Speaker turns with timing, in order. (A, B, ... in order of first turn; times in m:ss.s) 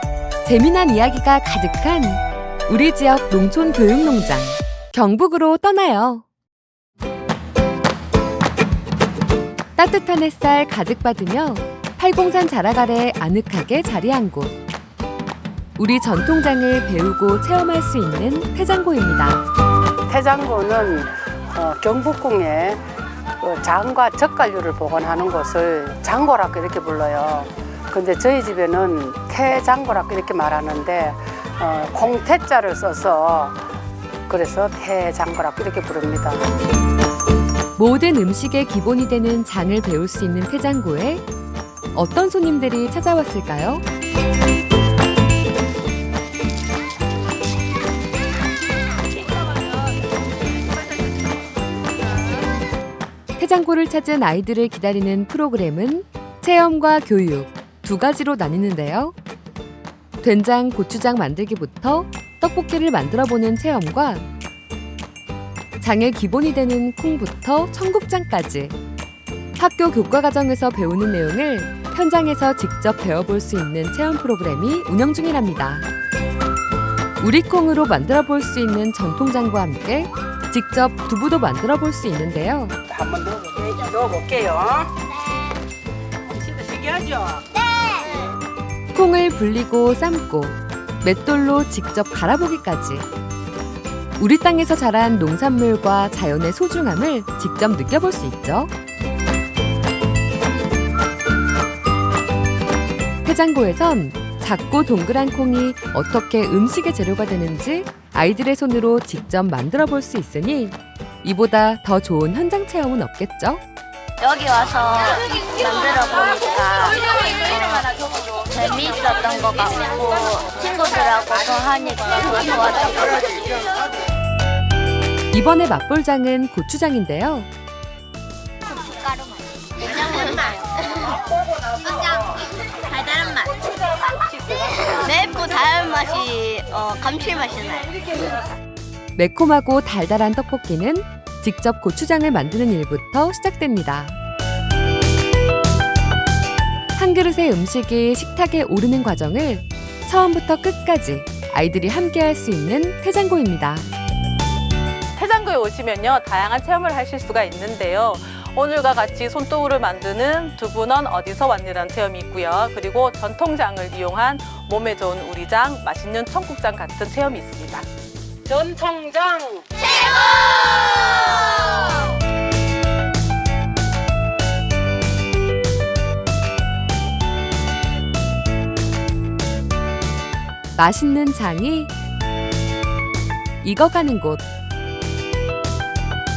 0:00.4-0:06.2 A
0:09.8-0:14.5 A
0:15.8-0:19.5 A
0:20.1-0:22.8 B
0:23.4-0:33.6 B
0:34.3-0:36.5 B
0:37.8-0:41.2 A
0:41.9-0:43.8 A
0:53.4-0:59.1 A
1:00.2-1:04.3 A
1:05.8-1:08.8 A
1:09.6-1:15.9 A
1:17.2-1:22.8 A
1:22.9-1:24.9 B
1:26.3-1:27.4 B
1:27.9-1:28.2 C
1:28.9-1:33.1 A
1:34.2-1:38.7 A
1:43.2-1:53.6 A
1:54.2-2:03.5 C
2:05.3-2:07.5 A
2:08.7-2:11.2 C
2:11.9-2:12.2 C
2:12.9-2:13.6 C
2:14.3-2:18.2 C
2:19.1-2:24.1 A
2:26.9-2:33.9 A
2:35.2-2:47.8 D
2:48.5-2:49.6 B
3:00.7-3:01.9 A
3:03.6-3:04.4 A